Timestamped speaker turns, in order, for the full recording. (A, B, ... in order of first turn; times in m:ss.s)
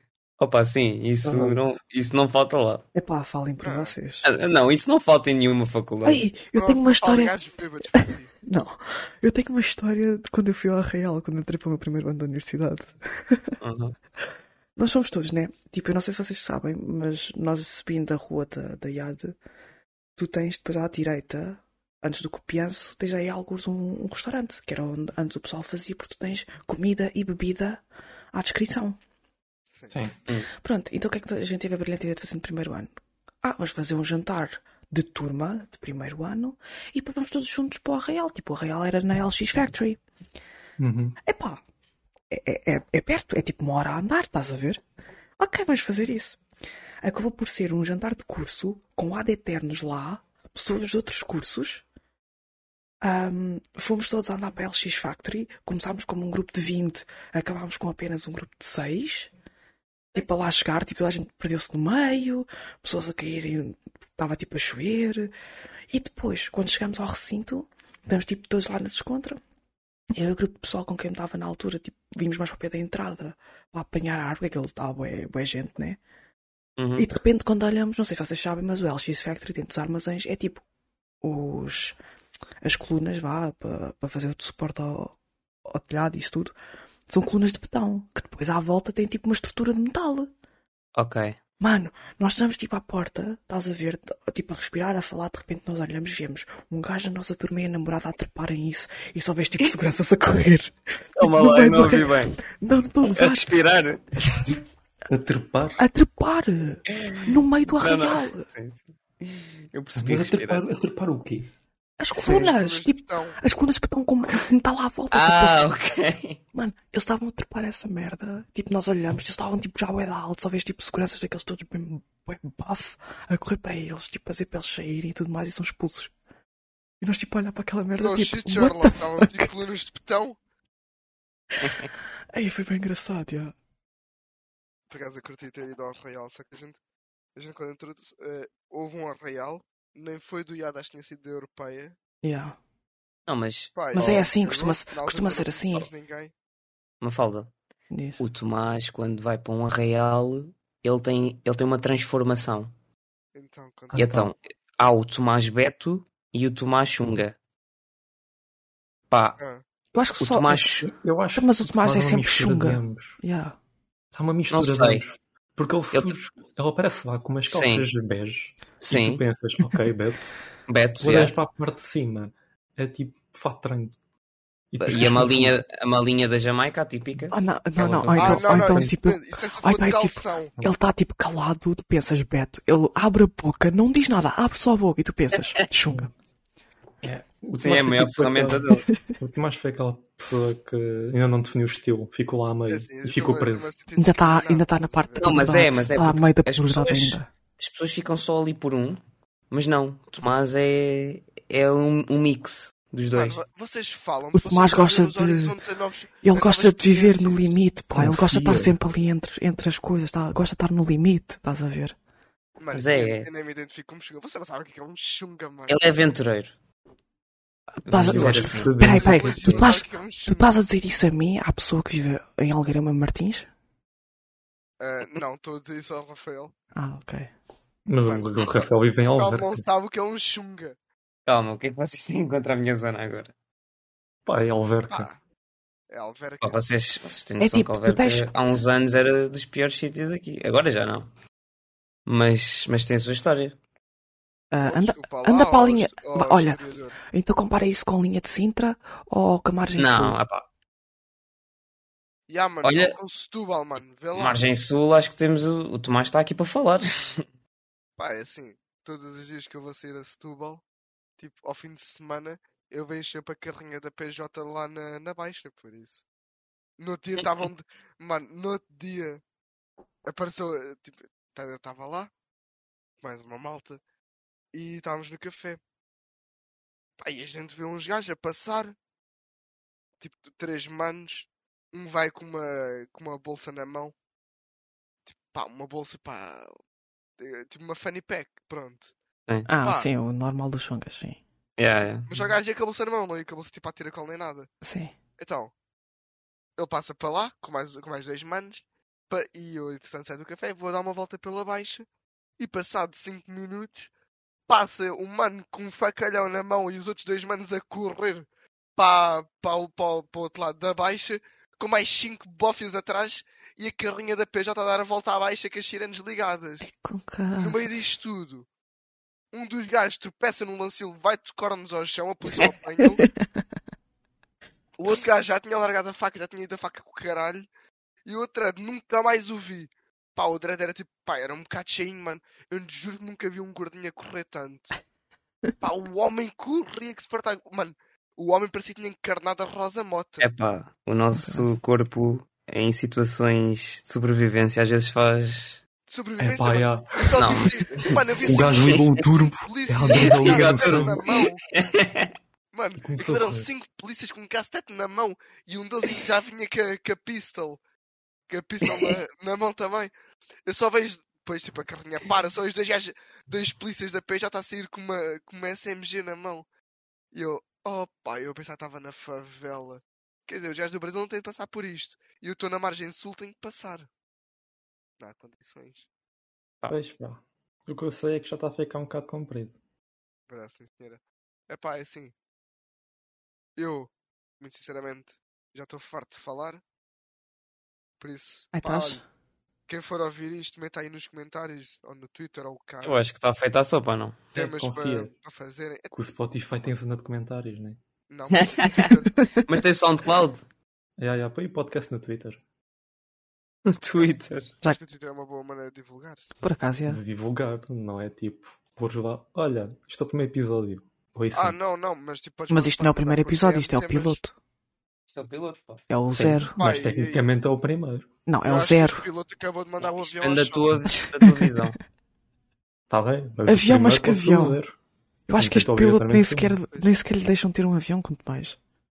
0:00.4-0:02.8 A
0:01.2-0:01.6 B
0:02.9-0:04.3 C
0:03.6-0:03.9 D
0:04.2-0:06.2 A
0:06.0-0:07.3 C
0:06.6-0:08.3 D
0:08.4-0:13.6 C
0:13.6-0:14.0 A
0:14.8-0:19.4 C
0:20.2-0:29.0 C
0:29.7-0:30.0 D
0:29.9-0:30.2 B
0:30.5-0:40.0 C
0:40.8-0:41.2 B
0:41.2-0:41.6 C
0:42.3-0:44.8 C
0:45.4-0:46.4 C
0:47.0-0:51.8 C
0:53.0-0:59.3 C
1:00.1-1:05.3 C
1:05.9-1:09.4 C
1:10.2-1:16.0 C
1:16.8-1:17.1 A
1:17.0-1:20.6 C
1:21.2-1:22.0 C
1:22.6-1:25.2 C
1:25.7-1:26.5 C
1:27.1-1:30.3 C
1:31.0-1:31.4 A
1:31.6-1:43.5 C
1:41.2-1:42.4 A
1:43.1-1:44.5 A
1:45.1-1:45.8 B
1:45.8-1:48.5 C
1:46.9-1:50.7 A
1:50.0-1:51.5 B
1:52.0-1:55.8 C
1:52.1-1:53.4 D
1:55.1-1:56.4 A
1:56.5-2:06.1 C
2:07.0-2:09.5 C
2:08.0-2:10.4 D
2:11.6-2:11.9 A
2:12.3-2:13.5 C
2:14.9-2:16.8 D
2:17.4-2:22.0 D
2:22.2-2:22.6 C
2:23.3-2:24.3 A
2:23.8-2:26.3 D
2:23.9-2:25.9 C
2:27.0-2:27.5 A
2:27.9-2:28.2 C
2:28.2-2:32.7 A
2:33.4-2:34.0 D
2:33.9-2:37.4 A
2:34.0-2:34.3 B
2:39.1-2:39.4 A
2:40.0-2:43.6 C
2:40.2-2:40.9 A
2:40.8-2:43.2 B
2:44.1-2:50.4 B
2:44.5-2:45.1 A
2:47.5-2:47.9 A
2:48.8-2:49.2 A
2:50.7-2:51.4 A
2:51.0-2:54.0 B
2:54.7-2:55.6 B
2:54.8-2:58.6 A
2:57.3-3:06.1 C
2:58.1-2:58.9 B
2:58.2-3:00.5 D
3:07.0-3:13.7 B
3:07.6-3:08.9 A
3:08.9-3:09.1 C
3:12.7-3:15.4 D
3:14.0-3:17.3 C
3:15.2-3:23.4 A
3:23.1-3:27.6 D
3:24.3-3:25.6 C
3:26.2-3:32.0 C
3:28.0-3:28.8 B
3:32.6-3:36.0 D
3:32.7-3:33.3 A
3:35.7-3:36.6 A
3:37.8-3:43.5 C
3:37.8-3:38.7 A
3:38.0-3:39.7 B
3:38.8-3:40.5 D
3:44.8-3:46.5 D
3:46.8-3:47.3 C
3:47.9-3:49.6 B
3:48.0-3:50.8 D
3:51.3-3:53.3 A
3:54.3-3:55.1 B
3:54.9-3:55.2 D
3:55.9-3:56.6 D
3:56.4-4:01.1 A
3:57.4-3:58.3 C
4:02.1-4:03.6 A
4:04.5-4:06.6 C
4:04.6-4:07.0 D
4:07.1-4:10.2 C
4:09.8-4:10.5 A
4:12.3-4:14.4 D
4:12.6-4:13.0 A
4:14.1-4:17.2 A
4:18.0-4:20.6 D
4:21.2-4:26.0 D
4:26.8-4:29.2 D
4:30.1-4:32.1 D
4:33.0-4:33.8 D
4:34.5-4:35.6 D
4:37.0-4:38.8 D
4:40.0-4:43.9 D
4:45.1-4:46.5 D
4:47.2-4:48.9 D
4:49.5-4:51.2 C
4:49.6-4:49.9 D
4:51.6-4:52.1 A
4:51.7-4:54.5 D
4:54.6-4:54.9 C
4:55.2-4:55.5 D
4:56.6-5:01.9 D
5:02.4-5:03.9 D
5:04.5-5:16.7 D
5:16.6-5:17.7 C
5:17.4-5:18.5 D
5:19.3-5:23.0 D
5:22.9-5:23.5 C
5:24.8-5:27.5 D
5:28.1-5:34.8 D
5:35.6-5:40.3 D
5:40.2-5:45.6 A
5:41.1-5:41.5 C
5:45.9-5:51.4 D
5:46.2-5:47.4 B
5:47.2-5:48.8 A
5:48.2-5:51.1 B
5:49.9-5:52.1 A
5:52.5-5:57.6 D
5:52.8-5:53.5 B
5:58.3-5:59.9 D
5:58.6-5:59.0 A
6:00.5-6:06.5 D
6:07.1-6:13.9 D
6:15.0-6:15.9 D
6:16.7-6:19.6 B
6:20.3-6:22.1 D
6:23.6-6:26.6 D
6:28.0-6:29.0 D
6:28.5-6:29.0 C
6:29.7-6:33.0 D
6:32.8-6:34.4 A
6:34.3-6:35.9 D
6:34.4-6:35.1 B
6:35.9-6:37.8 B
6:38.1-6:39.1 D
6:38.3-6:38.9 A
6:39.5-6:40.4 A
6:41.0-6:42.4 B
6:43.7-6:44.5 A
6:43.9-6:46.3 D
6:46.4-6:47.0 C
6:46.9-6:51.6 B
6:51.3-6:54.2 D
6:52.5-6:54.3 C
6:55.1-6:55.8 A
6:55.9-6:56.6 C
6:56.1-6:58.1 B
6:56.6-6:57.2 D
6:58.3-6:59.1 C
6:58.4-7:01.0 D
6:59.8-7:01.8 A
7:00.9-7:01.6 C
7:02.9-7:04.8 B
7:03.5-7:04.6 C
7:05.3-7:08.6 C
7:05.4-7:06.6 B